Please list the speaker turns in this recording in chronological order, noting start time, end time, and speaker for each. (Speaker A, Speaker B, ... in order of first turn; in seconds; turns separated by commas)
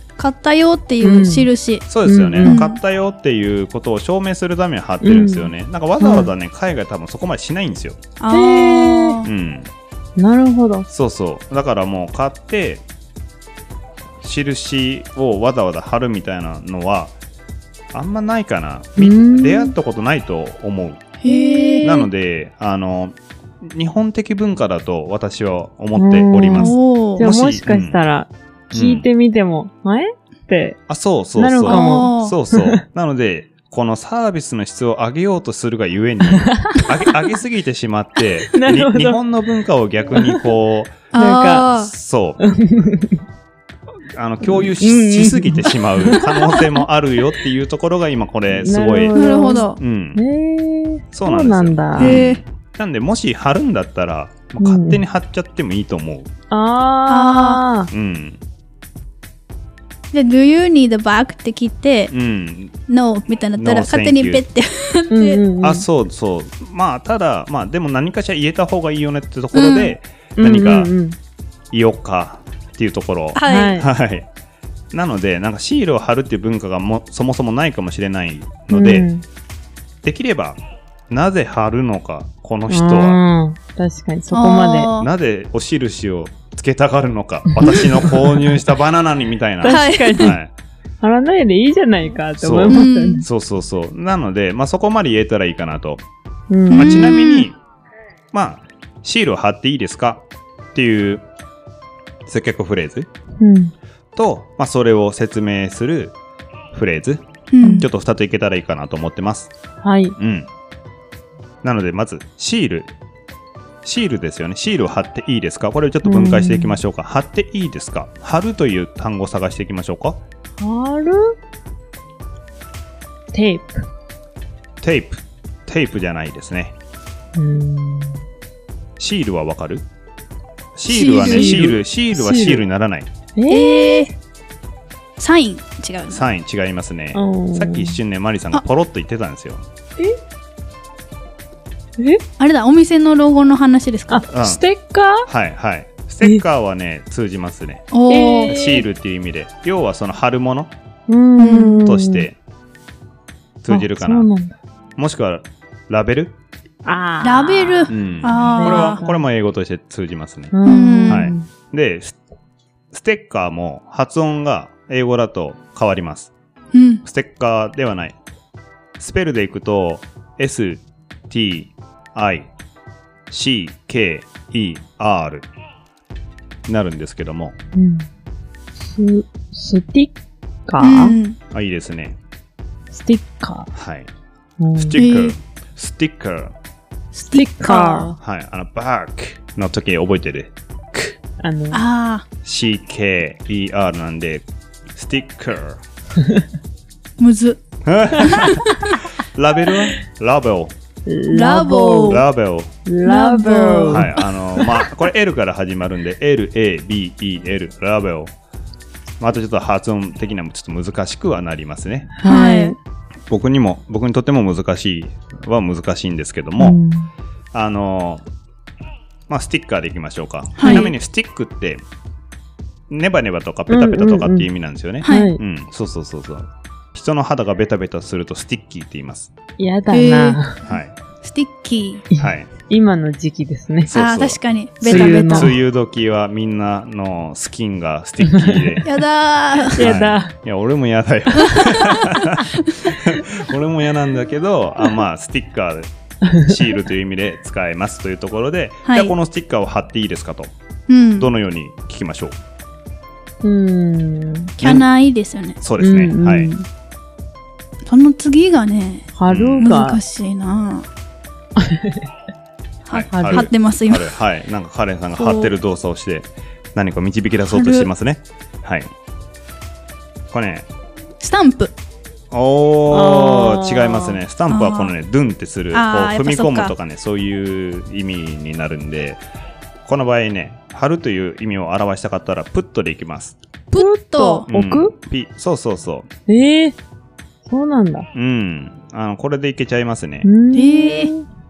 Speaker A: 0.2-1.9, Speaker B: 1.0-1.5, Speaker C: 1.9-8.0, Speaker B: 2.0-2.6, Speaker A: 2.4-2.8, Speaker B: 5.0-6.3, Speaker A: 8.2-9.3, Speaker B: 8.3-9.2, Speaker C: 9.2-9.7, Speaker B: 10.2-10.9, Speaker C: 10.9-12.8, Speaker C: 14.2-17.1, Speaker C: 17.9-21.0, Speaker B: 19.0-19.8, Speaker A: 21.2-22.1, Speaker B: 21.3-21.9, Speaker C: 21.8-28.0, Speaker B: 26.0-30.8, Speaker A: 26.6-27.2, Speaker C: 28.7-29.1, Speaker C: 30.9-41.1, Speaker B: 31.4-32.8, Speaker A: 31.6-32.4, Speaker B: 36.3-36.9, Speaker B: 38.5-39.2, Speaker B: 40.1-40.4, Speaker A: 41.1-41.9, Speaker B: 41.1-41.7, Speaker C: 41.8-42.4, Speaker B: 42.4-43.2, Speaker C: 44.1-49.2, Speaker B: 44.4-46.6, Speaker B: 48.5-52.2, Speaker A: 49.1-49.8, Speaker C: 49.8-50.2, Speaker C: 51.1-56.3, Speaker A: 52.0-52.4, Speaker B: 54.6-55.0, Speaker B: 56.5-57.9, Speaker A: 57.1-57.6, Speaker C: 57.9-58.4, Speaker A: 60.1-62.1, Speaker C: 62.1-62.8, Speaker A: 62.9-65.4, Speaker C: 63.6-64.4, Speaker B: 65.1-65.8, Speaker C: 65.6-70.9, Speaker A: 69.5-70.0, Speaker B: 70.4-71.2, Speaker C: 71.7-74.3, Speaker A: 73.3-73.8, Speaker B: 73.5-73.9, Speaker C: 74.9-79.1, Speaker B: 78.7-79.2, Speaker C: 80.0-80.6, Speaker C: 81.1-83.2, Speaker B: 82.7-84.9, Speaker A: 84.3-85.1, Speaker C: 85.0-90.5, Speaker B: 87.5-88.5, Speaker B: 89.6-90.4, Speaker A: 89.7-90.3, Speaker B: 91.0-93.3, Speaker C: 92.4-96.0, Speaker A: 92.7-93.2, Speaker B: 96.5-97.1, Speaker A: 96.7-97.5, Speaker C: 96.7-97.6, Speaker C: 98.3-101.2, Speaker C: 102.3-103.1, Speaker B: 103.4-103.7, Speaker C: 104.2-106.2, Speaker C: 106.7-109.5, Speaker A: 107.5-107.9, Speaker B: 107.6-107.9, Speaker B: 109.8-110.2, Speaker C: 110.2-110.5, Speaker C: 111.6-112.9, Speaker C: 113.8-120.2, Speaker B: 116.0-116.8, Speaker B: 120.6-121.4, Speaker B: 123.3-123.9, Speaker C: 124.8-126.8, Speaker B: 127.3-128.2, Speaker C: 129.0-129.8, Speaker C: 130.8-133.1, Speaker A: 130.9-131.7, Speaker B: 131.2-132.7, Speaker B: 133.4-134.1, Speaker A: 133.5-134.1, Speaker A: 135.2-136.2, Speaker C: 136.1-139.7, Speaker B: 137.1-138.0, Speaker A: 142.4-144.2, Speaker B: 144.1-145.3, Speaker C: 144.3-144.6, Speaker C: 145.3-147.9, Speaker A: 147.9-148.6, Speaker B: 148.1-148.8, Speaker C: 148.5-150.7, Speaker B: 151.1-152.3, Speaker A: 151.4-151.9, Speaker C: 151.8-152.4, Speaker C: 153.6-154.3, Speaker B: 153.7-154.6, Speaker C: 155.0-156.3, Speaker B: 156.9-157.9, Speaker A: 157.2-159.0, Speaker C: 157.9-160.6, Speaker B: 158.6-159.2, Speaker B: 160.5-161.5, Speaker A: 160.7-161.2, Speaker C: 161.1-162.2, Speaker C: 162.9-166.3, Speaker A: 166.7-167.0, Speaker C: 167.0-168.2, Speaker C: 169.0-172.5, Speaker C: 173.3-175.5, Speaker C: 176.7-177.6, Speaker B: 177.7-178.1, Speaker B: 178.8-180.1, Speaker B: 180.7-181.2, Speaker A: 180.8-181.4, Speaker C: 181.5-182.2, Speaker B: 182.9-183.7, Speaker C: 183.7-184.1, Speaker B: 184.6-185.0, Speaker C: 184.8-186.5, Speaker A: 185.0-185.3, Speaker B: 187.2-188.2, Speaker A: 187.3-188.1, Speaker C: 188.2-191.2, Speaker B: 191.4-191.8, Speaker A: 191.7-192.2, Speaker C: 192.4-195.8, Speaker A: 197.2-197.6, Speaker C: 197.8-198.8, Speaker A: 198.2-199.1, Speaker C: 199.3-200.8, Speaker B: 201.1-202.2, Speaker A: 201.3-202.2, Speaker C: 202.1-202.7, Speaker B: 202.9-204.2, Speaker A: 203.0-204.2, Speaker C: 203.9-208.3, Speaker C: 209.2-212.2, Speaker B: 212.2-212.8, Speaker A: 212.2-212.8, Speaker C: 213.3-216.8, Speaker B: 216.6-217.1, Speaker C: 217.5-218.2, Speaker C: 219.3-221.8, Speaker A: 220.6-220.9, Speaker B: 220.7-220.9, Speaker C: 222.9-229.3, Speaker B: 223.7-224.5, Speaker A: 225.0-225.3, Speaker B: 225.1-225.4, Speaker B: 229.6-230.6, Speaker A: 229.9-230.4, Speaker C: 230.7-230.9, Speaker A: 231.2-232.1, Speaker B: 232.1-233.9, Speaker C: 232.2-232.5, Speaker C: 233.9-238.9, Speaker A: 233.9-235.6, Speaker B: 234.8-235.5, Speaker B: 238.2-238.9, Speaker A: 238.8-239.9, Speaker C: 239.7-250.5, Speaker B: 239.8-240.3, Speaker A: 241.4-242.0, Speaker A: 248.9-249.1, Speaker A: 250.9-251.3, Speaker C: 251.2-252.4, Speaker B: 253.4-254.5, Speaker A: 254.6-255.6, Speaker C: 254.6-254.9, Speaker C: 255.6-256.5, Speaker B: 255.8-256.7, Speaker A: 257.9-260.9, Speaker B: 259.2-260.0, Speaker C: 259.3-259.8, Speaker B: 261.6-262.1, Speaker A: 262.9-264.1, Speaker C: 262.9-268.9, Speaker B: 263.1-263.5, Speaker A: 265.2-265.5, Speaker A: 267.5-267.9, Speaker C: 270.3-270.7, Speaker A: 271.2-271.7, Speaker C: 272.3-279.2, Speaker B: 272.9-274.2, Speaker A: 274.5-274.9, Speaker A: 275.7-276.7, Speaker C: 279.9-283.4, Speaker A: 283.7-284.5, Speaker B: 283.7-284.9, Speaker C: 284.5-286.1, Speaker B: 286.3-286.8, Speaker B: 287.5-288.1, Speaker C: 288.1-290.3, Speaker B: 290.2-291.2, Speaker A: 290.5-291.1